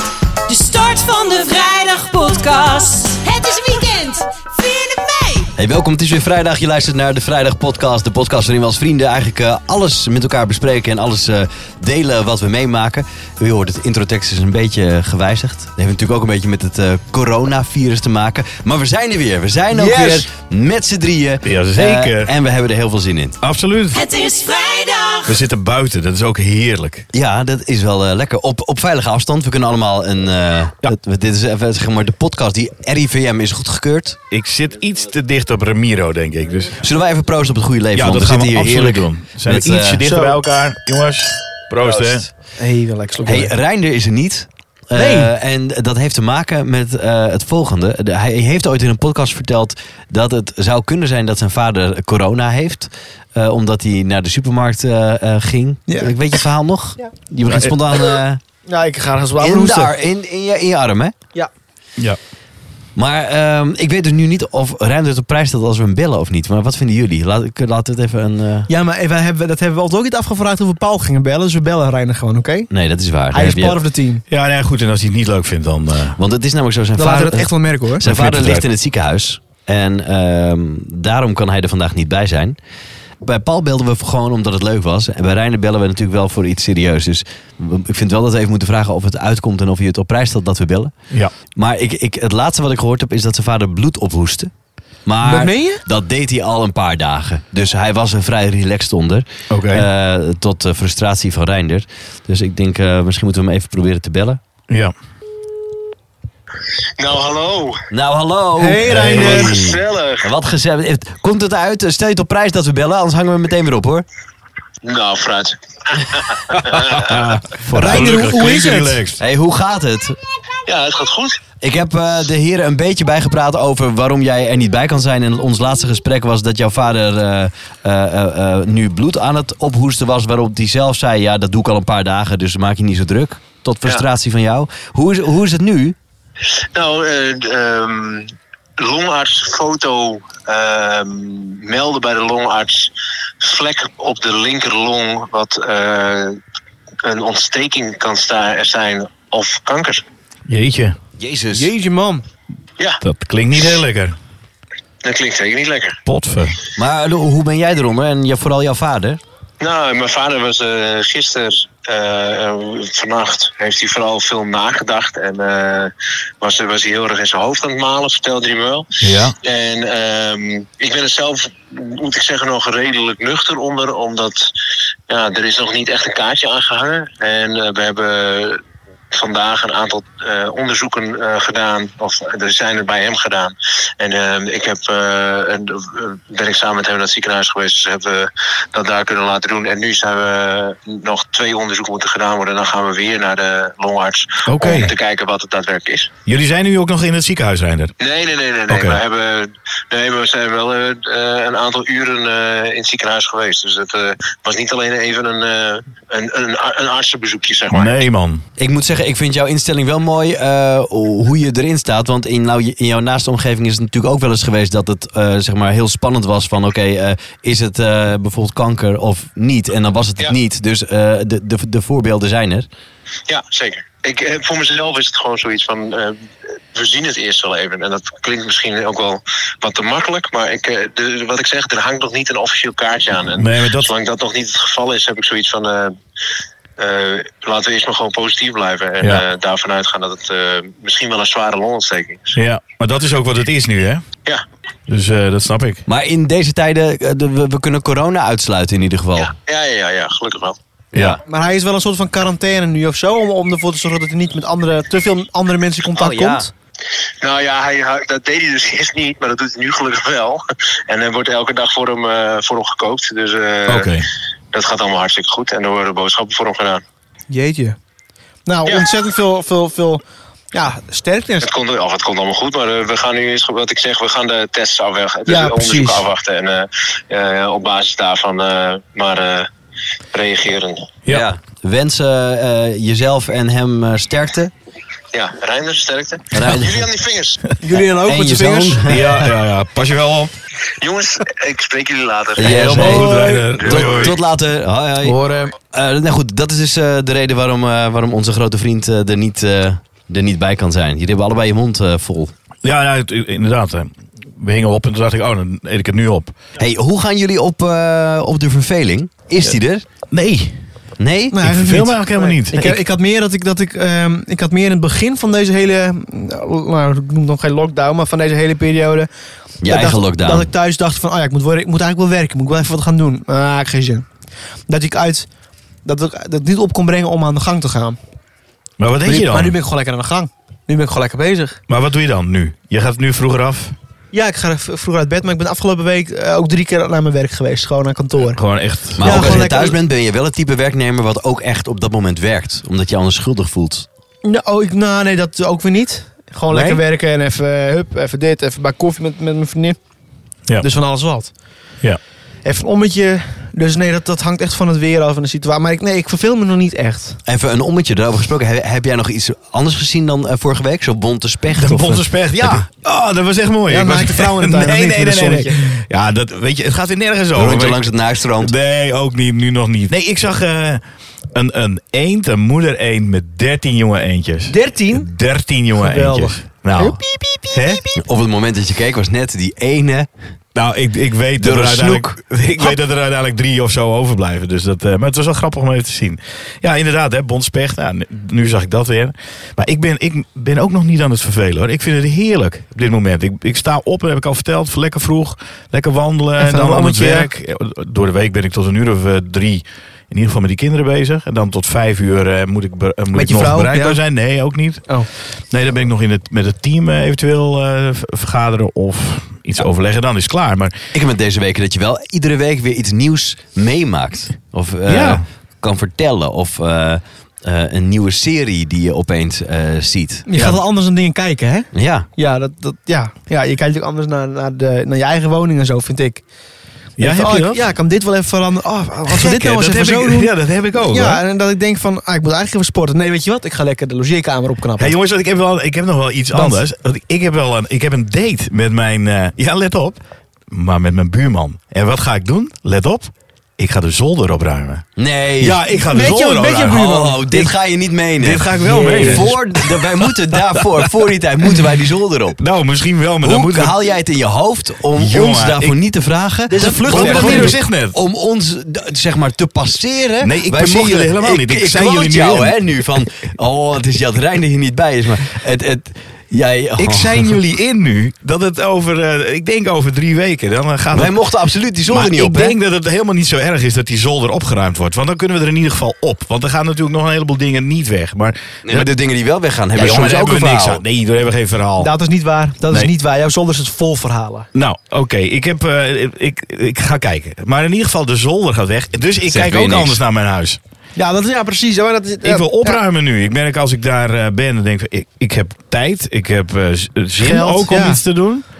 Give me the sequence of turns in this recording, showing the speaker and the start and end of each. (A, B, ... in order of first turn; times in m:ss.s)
0:00.5-0:05.5 A
0:05.6-0:23.4 B
0:19.7-0:20.3 C
0:21.4-0:22.3 D
0:23.4-0:24.0 D
0:23.9-0:25.4 A
0:25.2-0:27.1 D
0:27.1-0:34.2 B
0:34.3-0:36.8 D
0:36.8-0:40.0 B
0:37.9-0:42.3 D
0:40.0-0:40.4 C
0:42.6-0:43.5 C
0:43.2-0:58.4 B
0:44.9-0:45.3 C
0:57.5-0:57.7 D
0:58.7-0:59.9 C
0:59.4-1:01.1 B
1:03.0-1:08.7 B
1:08.7-1:12.7 C
1:12.7-1:13.8 B
1:13.3-1:14.2 C
1:14.3-1:16.2 D
1:16.2-1:22.6 B
1:17.0-1:18.0 C
1:18.0-1:18.6 D
1:23.2-1:30.9 B
1:31.5-1:34.5 B
1:35.0-1:44.4 B
1:35.2-1:35.8 C
1:39.5-1:39.8 D
1:47.0-1:47.8 E
1:47.9-1:54.0 B
1:48.6-1:49.5 C
1:48.8-1:49.5 D
1:49.4-1:50.3 E
1:54.8-1:57.2 E
1:56.7-1:59.2 D
1:57.7-1:59.0 C
1:57.8-1:58.3 B
1:59.2-2:00.2 B
2:00.6-2:01.4 E
2:01.6-2:16.0 B
2:16.7-2:26.4 E
2:27.0-2:30.0 E
2:30.5-2:31.0 D
2:31.2-2:31.7 B
2:31.5-2:32.2 C
2:33.0-2:34.2 D
2:35.0-2:36.0 E
2:36.0-2:36.6 D
2:36.8-2:39.2 B
2:39.6-2:48.9 E
2:49.0-2:49.4 D
2:49.4-2:54.5 E
2:55.1-3:16.1 E
3:14.4-3:14.9 D
3:16.2-3:17.9 D
3:18.0-3:28.0 E
3:18.7-3:19.0 D
3:27.7-3:28.4 D
3:28.6-3:42.6 B
3:43.3-3:56.0 E
3:53.3-3:53.9 D
3:56.8-4:02.4 E
4:02.3-4:04.0 D
4:04.9-4:05.8 D
4:05.9-4:09.3 B
4:09.2-4:10.6 E
4:10.9-4:11.2 D
4:11.2-4:16.5 C
4:16.0-4:16.4 B
4:17.2-4:24.0 E
4:23.7-4:24.1 D
4:24.5-4:26.8 E
4:27.3-4:27.8 C
4:28.5-4:31.5 C
4:31.4-4:39.5 E
4:35.3-4:36.0 C
4:40.1-4:40.9 E
4:41.1-4:44.5 B
4:45.1-4:47.4 E
4:46.3-4:46.8 B
4:47.6-4:48.8 C
4:48.0-4:49.2 B
4:48.8-4:50.3 D
4:50.8-4:54.2 E
4:52.4-4:55.2 B
4:52.4-4:54.2 D
4:52.8-4:53.5 C
4:55.0-4:55.5 C
4:55.7-5:02.3 B
5:02.6-5:06.4 D
5:06.6-5:09.8 B
5:10.1-5:10.6 D
5:11.0-5:11.4 B
5:11.3-5:19.1 C
5:11.4-5:12.8 D
5:19.6-5:20.5 B
5:19.6-5:24.0 C
5:24.7-5:25.3 C
5:25.8-5:28.0 C
5:28.8-5:29.6 D
5:29.0-5:31.6 C
5:31.7-5:33.7 D
5:34.1-5:38.4 C
5:38.3-5:39.5 D
5:39.0-5:43.8 B
5:39.0-5:39.8 C
5:44.2-5:49.8 C
5:46.5-5:46.8 B
5:50.6-5:51.3 C
5:52.4-5:57.2 C
5:57.3-6:02.6 B
6:01.5-6:07.8 D
6:03.7-6:05.6 C
6:07.3-6:08.5 B
6:08.4-6:17.8 D
6:14.5-6:15.1 C
6:15.8-6:18.0 C
6:18.0-6:20.1 B
6:20.5-6:44.8 D
6:21.4-6:22.8 B
6:36.4-6:37.3 C
6:43.1-6:44.0 C
6:45.5-6:50.8 D
6:50.9-7:00.3 B
6:54.9-6:55.2 D
7:00.3-7:06.2 C
7:01.7-7:02.1 B
7:07.0-7:07.6 D
7:07.0-7:10.3 C
7:09.1-7:11.2 D
7:10.9-7:14.9 C
7:14.8-7:20.0 D
7:16.3-7:16.6 C
7:20.5-7:24.8 D
7:25.0-7:25.6 B
7:25.4-7:26.9 D
7:25.7-7:27.5 C
7:26.8-7:32.4 B
7:28.2-7:30.9 D
7:28.6-7:29.4 C
7:32.4-7:33.8 D
7:33.2-7:47.3 B
7:34.9-7:35.8 D
7:36.5-7:37.5 C
7:36.6-7:38.0 D
7:40.2-7:42.7 D
7:46.8-7:51.1 D
7:50.9-7:52.5 B
7:51.8-7:58.9 D
7:58.6-8:00.8 B
7:59.7-8:01.9 D
8:01.8-8:04.5 C
8:04.5-8:10.6 D
8:09.3-8:10.0 B
8:11.0-8:12.8 C
8:12.2-8:18.4 D
8:17.2-8:18.0 C